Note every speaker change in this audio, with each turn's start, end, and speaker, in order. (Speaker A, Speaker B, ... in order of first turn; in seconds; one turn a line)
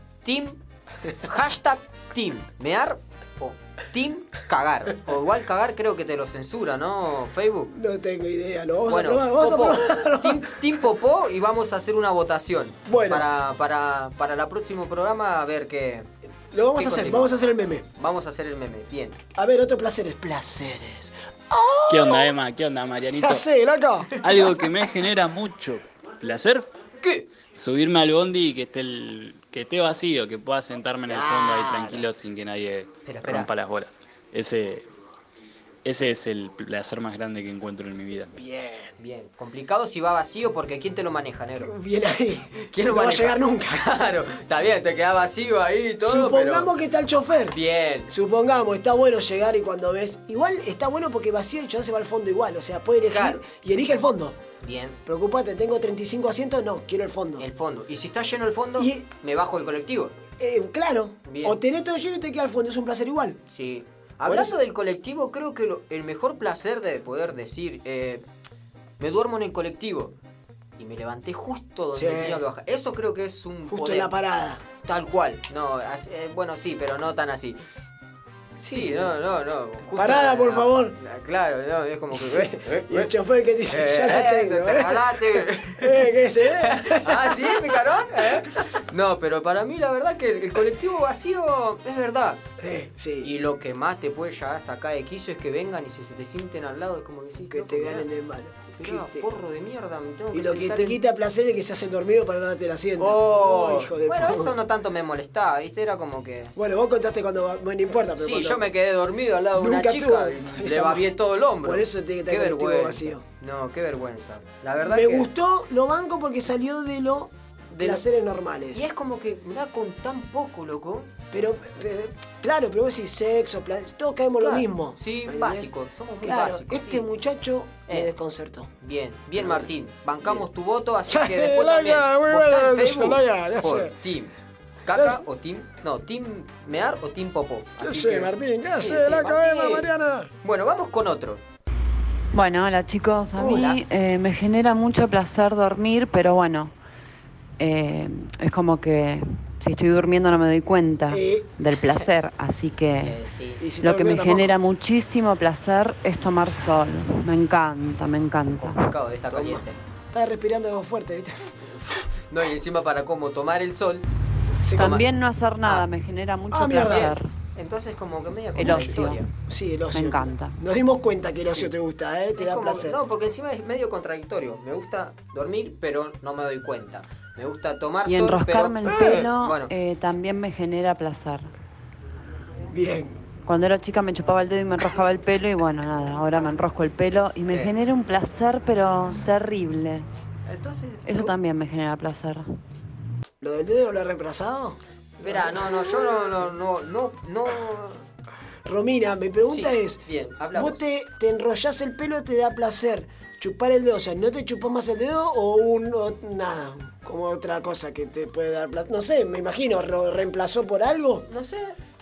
Speaker A: 0.2-0.6
Speaker A: 1.2-7.7
Speaker B: 7.7-10.5
Speaker A: 8.9-16.1
Speaker B: 12.9-13.3
Speaker B: 16.5-17.9
Speaker A: 16.8-17.3
Speaker A: 18.0-19.2
Speaker B: 19.4-22.3
Speaker C: 21.9-23.4
Speaker B: 23.1-24.6
Speaker C: 24.2-26.7
Speaker C: 27.5-34.9
Speaker B: 31.1-32.0
Speaker A: 33.0-33.5
Speaker C: 35.9-38.3
Speaker B: 38.4-39.0
Speaker A: 39.0-41.7
Speaker B: 41.6-43.9
Speaker A: 42.7-46.7
Speaker B: 46.0-54.4
Speaker A: 47.5-48.1
Speaker A: 53.1-53.4
Speaker A: 54.6-55.0
Speaker B: 55.1-57.5
Speaker A: 57.4-60.2
Speaker B: 58.8-59.1
Speaker B: 60.4-63.4
Speaker A: 61.3-61.6
Speaker A: 63.5-68.2
Speaker B: 64.2-64.6
Speaker A: 69.0-70.2
Speaker A: 70.8-74.1
Speaker B: 71.9-72.5
Speaker B: 73.7-74.6
Speaker A: 74.8-77.6
Speaker B: 78.6-79.1
Speaker A: 78.7-83.1
Speaker B: 80.0-81.0
Speaker B: 82.2-88.5
Speaker A: 83.7-92.4
Speaker B: 92.6-93.3
Speaker A: 93.2-98.1
Speaker B: 97.5-99.3
Speaker A: 98.8-101.0
Speaker B: 100.3-104.5
Speaker A: 103.0-106.5
Speaker B: 106.6-108.7
Speaker A: 108.2-115.3
Speaker B: 109.6-111.1
Speaker B: 111.6-113.2
Speaker B: 114.8-118.9
Speaker A: 117.8-118.0
Speaker A: 118.7-121.1
Speaker B: 121.3-128.7
Speaker A: 124.4-127.0
Speaker A: 128.8-134.3
Speaker B: 129.4-129.7
Speaker B: 131.1-134.0
Speaker A: 134.9-139.9
Speaker B: 134.9-135.2
Speaker B: 137.8-140.3
Speaker A: 140.4-141.4
Speaker D: 142.3-146.8
Speaker B: 143.4-143.7
Speaker A: 143.4-143.8
Speaker D: 147.6-153.2
Speaker B: 151.1-151.5
Speaker A: 153.0-153.7
Speaker B: 153.6-154.6
Speaker D: 153.8-158.9
Speaker A: 158.5-159.8
Speaker B: 159.3-161.7
Speaker A: 161.7-164.1
Speaker B: 164.6-165.0
Speaker D: 164.8-167.3
Speaker A: 164.8-165.0
Speaker B: 166.5-167.1
Speaker A: 166.8-169.3
Speaker D: 168.6-169.2
Speaker B: 168.6-173.0
Speaker D: 169.9-170.6
Speaker A: 171.4-171.7
Speaker A: 172.4-179.7
Speaker D: 178.1-181.5
Speaker B: 178.8-179.3
Speaker B: 182.7-183.2
Speaker D: 183.5-190.1
Speaker A: 190.5-191.3
Speaker D: 191.1-192.5
Speaker B: 193.4-196.1
Speaker A: 195.2-198.1
Speaker B: 198.7-211.3
Speaker A: 199.5-200.8
Speaker A: 211.3-211.8